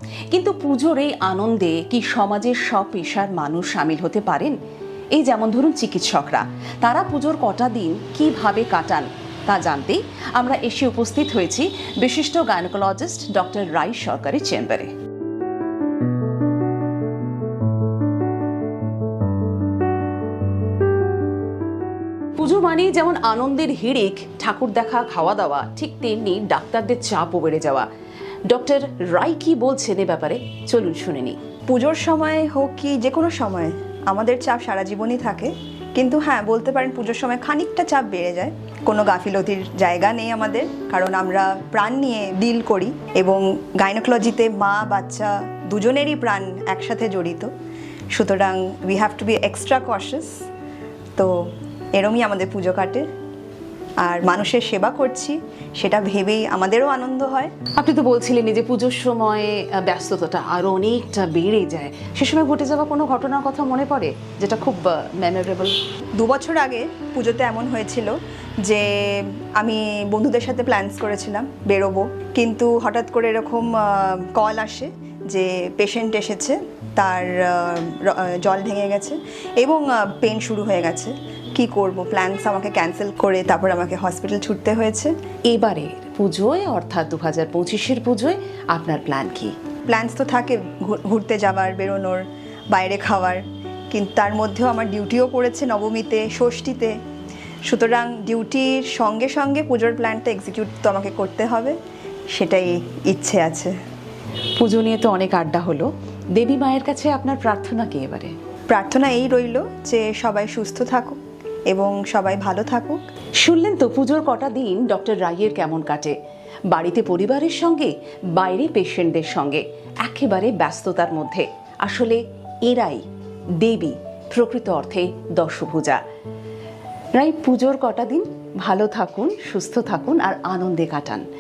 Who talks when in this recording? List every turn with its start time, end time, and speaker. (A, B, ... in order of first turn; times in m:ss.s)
0:00.3-0:04.6 A
0:05.1-0:14.9 A
0:22.4-0:27.9 A
0:28.5-0:31.4 A
0:31.7-0:47.5 B
0:48.1-0:50.3 B
0:52.0-0:53.1 B
0:54.0-0:57.5 B
0:57.7-1:05.8 A
1:06.2-1:25.1 B
1:25.5-1:29.5 A
1:29.9-1:37.0 B
1:37.7-1:41.8 B
1:42.3-1:43.8 B
1:44.6-1:48.3 A
1:48.7-1:51.2 B
1:51.7-1:53.0 B
1:53.4-1:56.2 A
1:56.7-2:03.0 A
2:03.6-2:06.0 A
2:07.2-2:11.2 A